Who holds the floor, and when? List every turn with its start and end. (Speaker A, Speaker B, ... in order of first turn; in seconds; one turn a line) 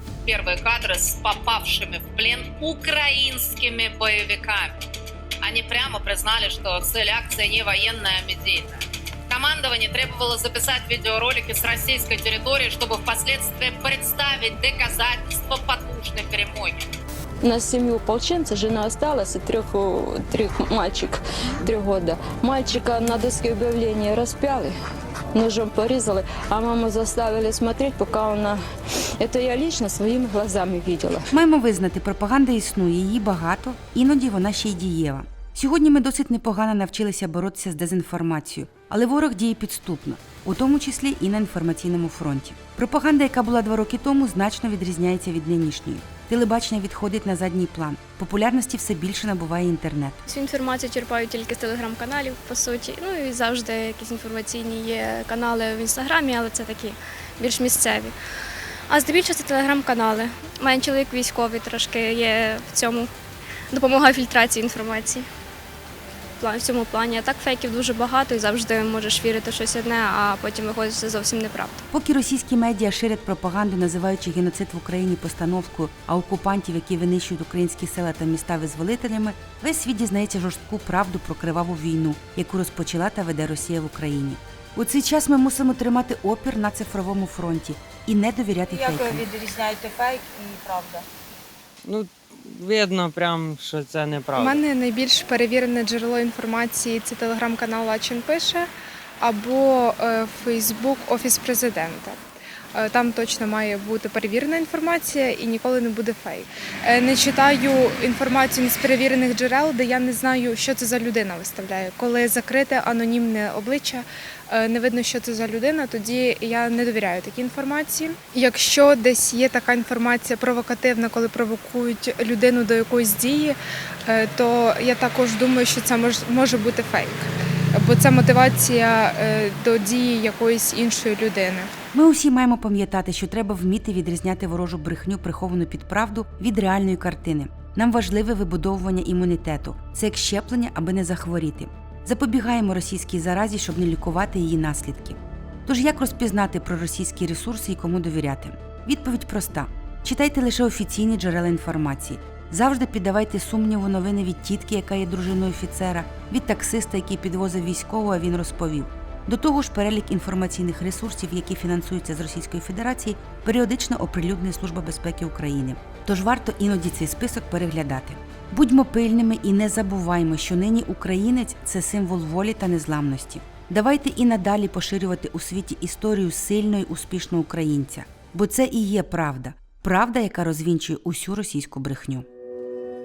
Speaker A: 0.3-4.8
Speaker A: 5.4-16.9
Speaker B: 17.4-24.7
Speaker B: 25.3-28.6
Speaker B: 29.2-31.3
Speaker C: 31.3-50.2
Speaker D: 50.2-58.1
Speaker D: 58.9-63.1
Speaker D: 63.7-65.2
Speaker D: 66.4-71.8
Speaker C: 71.9-89.3
Speaker E: 88.7-91.0
Speaker F: 91.8-94.6
Speaker G: 94.3-98.7
Speaker G: 99.2-102.2
Speaker G: 102.7-131.7
Speaker C: 131.9-182.2